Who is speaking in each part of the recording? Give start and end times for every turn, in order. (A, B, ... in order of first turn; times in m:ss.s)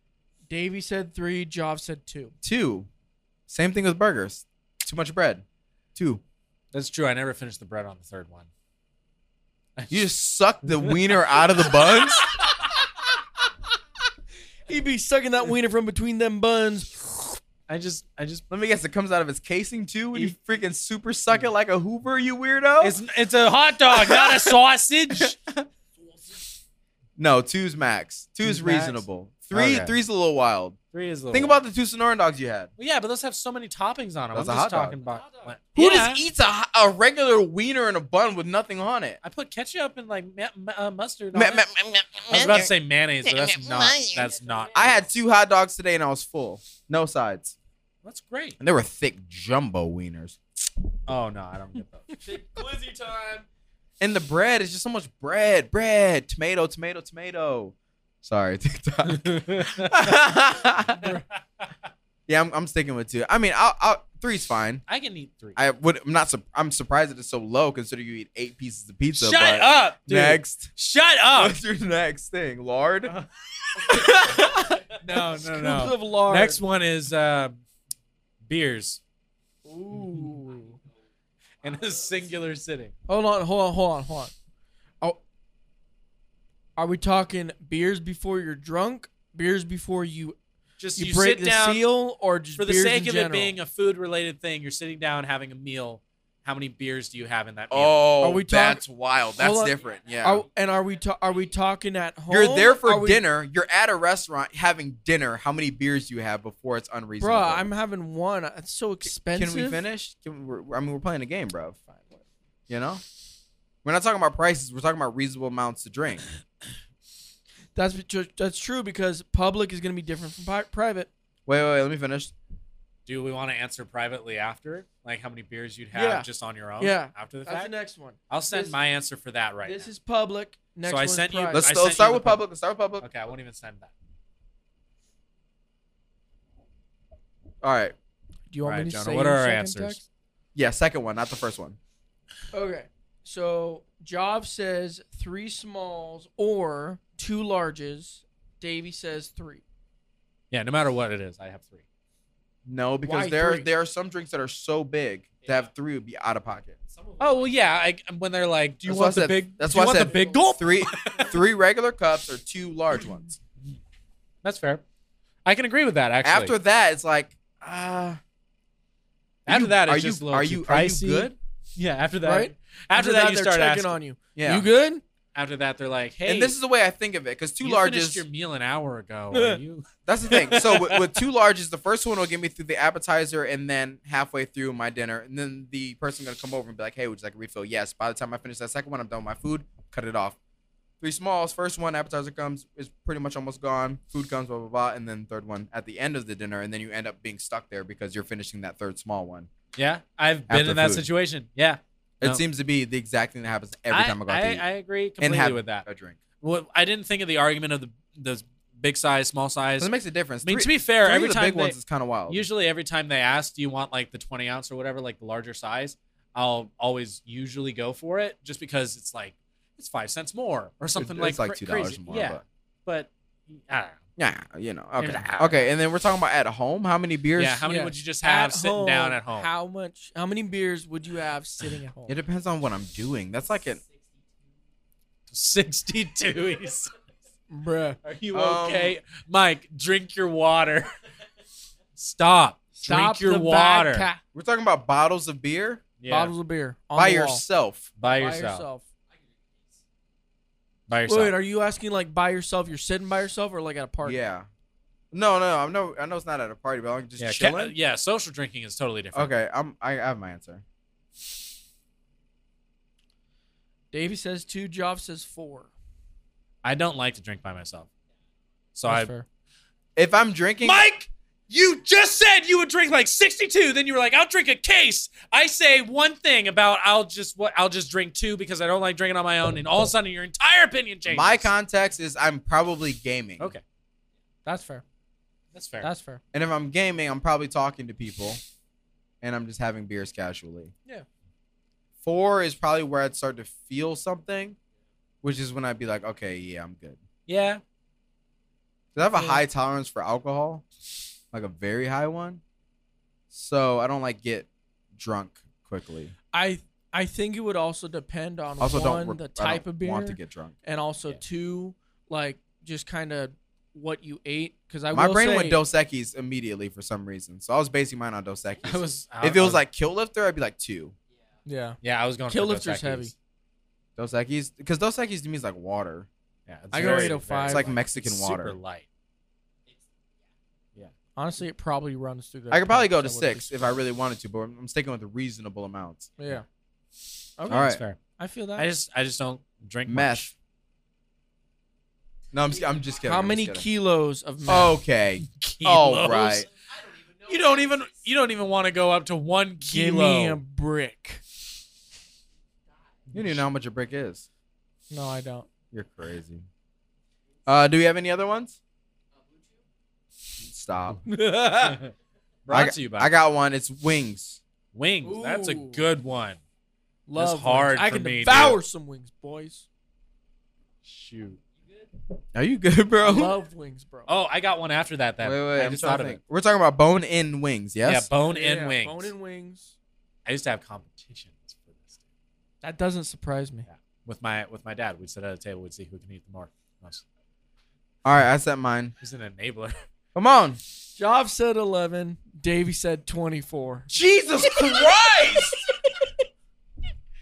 0:00.5-0:02.3 A
0:02.4-0:02.9 B
0:03.5-0:05.4 B
0:05.9-0:06.2 B
0:06.7-0:08.5 C
0:09.8-0:10.1 C
0:09.9-0:12.3 B
0:14.7-0:17.1 A
0:17.7-0:18.4 C
0:18.5-0:23.0 B
0:22.8-0:25.3 C
0:23.9-0:24.6 B
0:25.2-0:25.6 B
0:27.2-0:30.8 B
0:28.4-0:29.9 C
0:30.9-0:31.6 C
0:31.3-0:32.7 B
0:32.8-0:36.2 C
0:34.3-0:35.0 B
0:35.2-0:35.4 D
0:35.7-0:39.2 B
0:39.2-0:41.6 C
0:41.3-0:42.7 B
0:42.3-0:45.1 C
0:43.2-0:47.5 B
0:44.1-0:44.7 D
0:48.0-0:48.6 C
0:48.6-0:50.4 B
0:51.1-0:52.2 C
0:52.2-0:53.4 D
0:54.0-1:01.2 B
0:59.0-1:00.2 C
1:00.9-1:01.7 C
1:02.3-1:04.8 B
1:04.9-1:05.6 C
1:05.6-1:10.7 B
1:09.1-1:11.6 C
1:11.3-1:13.1 B
1:13.8-1:14.8 B
1:15.0-1:17.6 C
1:15.3-1:16.6 A
1:18.4-1:19.0 C
1:19.6-1:20.8 A
1:21.6-1:22.9 C
1:23.1-1:24.3 A
1:26.8-1:30.4 A
1:30.8-1:31.9 C
1:31.0-1:33.6 A
1:32.6-1:38.1 C
1:37.7-1:40.4 B
1:38.2-1:38.8 A
1:39.4-1:43.2 A
1:42.3-1:47.7 B
1:47.2-1:49.8 A
1:49.3-1:51.8 B
1:52.7-1:53.0 B
1:53.8-1:56.2 B
1:57.7-2:01.1 A
2:01.4-2:02.3 B
2:03.0-2:07.7 C
2:05.9-2:06.3 A
2:06.8-2:08.8 A
2:08.3-2:09.9 C
2:09.6-2:11.7 A
2:10.8-2:12.4 C
2:11.5-2:13.0 B
2:13.0-2:13.9 C
2:17.6-2:17.9 B
2:18.5-2:20.0 A
2:18.6-2:20.0 C
2:20.5-2:21.8 B
2:22.5-2:29.6 A
2:30.5-2:31.8 C
2:32.6-2:36.8 B
2:33.0-2:33.7 A
2:37.0-2:37.7 D
2:37.2-2:41.3 C
2:38.8-2:43.3 B
2:40.1-2:40.5 D
2:44.4-2:44.8 C
2:45.4-2:46.5 C
2:46.2-2:48.2 B
2:49.4-2:54.0 C
2:49.5-2:51.3 B
2:52.2-2:55.0 A
2:54.4-2:54.7 B
2:55.3-2:56.5 C
2:56.2-2:58.2 B
2:57.6-3:01.1 C
2:59.3-2:59.6 A
3:00.1-3:10.4 B
3:11.0-3:19.5 B
3:19.8-3:22.4 C
3:20.5-3:21.0 B
3:22.2-3:24.6 B
3:23.9-3:25.8 C
3:25.2-3:26.2 B
3:26.4-3:29.9 C
3:29.8-3:32.4 B
3:30.4-3:31.8 C
3:32.3-3:44.0 C
3:41.0-3:42.4 B
3:44.2-3:47.6 B
3:45.0-3:45.6 C
3:47.4-3:49.5 C
3:47.6-3:52.2 A
3:52.1-3:53.8 B
3:55.3-3:56.9 C
3:57.5-3:58.0 A
3:58.0-4:00.9 C
3:58.3-3:59.0 B
4:02.0-4:04.1 C
4:02.8-4:04.2 A
4:04.3-4:05.8 B
4:06.0-4:06.3 C
4:06.1-4:07.4 A
4:06.9-4:07.9 B
4:08.0-4:08.6 C
4:08.0-4:08.8 A
4:10.9-4:11.4 C
4:11.0-4:14.2 A
4:14.0-4:14.5 B
4:15.1-4:17.7 B
4:17.2-4:19.3 C
4:19.1-4:20.6 B
4:23.9-4:25.7 A
4:26.6-4:27.9 C
4:28.7-4:29.1 C
4:28.8-4:29.2 A
4:30.0-4:30.8 B
4:30.6-4:41.5 C
4:41.1-4:43.5 B
4:44.4-4:44.8 A
4:45.5-4:45.9 C
4:45.8-4:46.2 A
4:46.3-4:48.4 B
4:49.2-4:50.7 B
4:52.0-4:54.6 B
4:55.2-4:57.0 B
4:57.3-4:57.6 C
4:58.9-5:00.6 B
4:59.1-4:59.4 A
5:01.3-5:02.4 B
5:03.3-5:06.1 B
5:06.3-5:15.6 A
5:08.6-5:10.5 B
5:14.9-5:20.9 B
5:18.6-5:19.6 C
5:21.4-5:21.8 A
5:21.8-5:23.1 C
5:22.3-5:23.1 A
5:24.0-5:26.1 B
5:26.5-5:28.8 C
5:26.7-5:27.7 A
5:27.5-5:28.5 B
5:31.2-5:33.8 A
5:32.5-5:36.1 B
5:36.2-5:36.4 A
5:37.4-5:38.7 A
5:37.5-5:37.8 B
5:37.5-5:38.0 C
5:38.5-5:40.3 C
5:39.9-5:40.3 B
5:42.3-5:43.6 B
5:43.0-5:44.8 A
5:44.5-5:46.5 B
5:45.2-5:46.5 C
5:46.8-5:47.3 D
5:47.2-5:50.4 C
5:49.6-5:51.2 A
5:53.1-5:54.2 B
5:53.1-5:53.4 C
5:54.9-5:55.5 A
5:55.7-5:56.4 B
5:57.4-5:58.6 B
6:00.4-6:01.0 B
6:01.1-6:01.8 A
6:01.5-6:01.9 C
6:02.4-6:03.1 C
6:02.5-6:04.4 B
6:04.7-6:06.4 C
6:05.0-6:05.8 A
6:07.1-6:09.6 A
6:07.1-6:08.6 C
6:10.8-6:11.4 C
6:12.3-6:13.3 B
6:13.0-6:14.1 A
6:14.1-6:16.2 C
6:15.2-6:18.1 B
6:17.8-6:19.1 C
6:18.2-6:19.7 A
6:20.2-6:22.0 C
6:22.6-6:23.7 A
6:23.7-6:27.0 C
6:28.0-6:28.9 B
6:29.0-6:29.8 C
6:30.1-6:30.6 B
6:31.0-6:33.9 A
6:33.9-6:35.6 B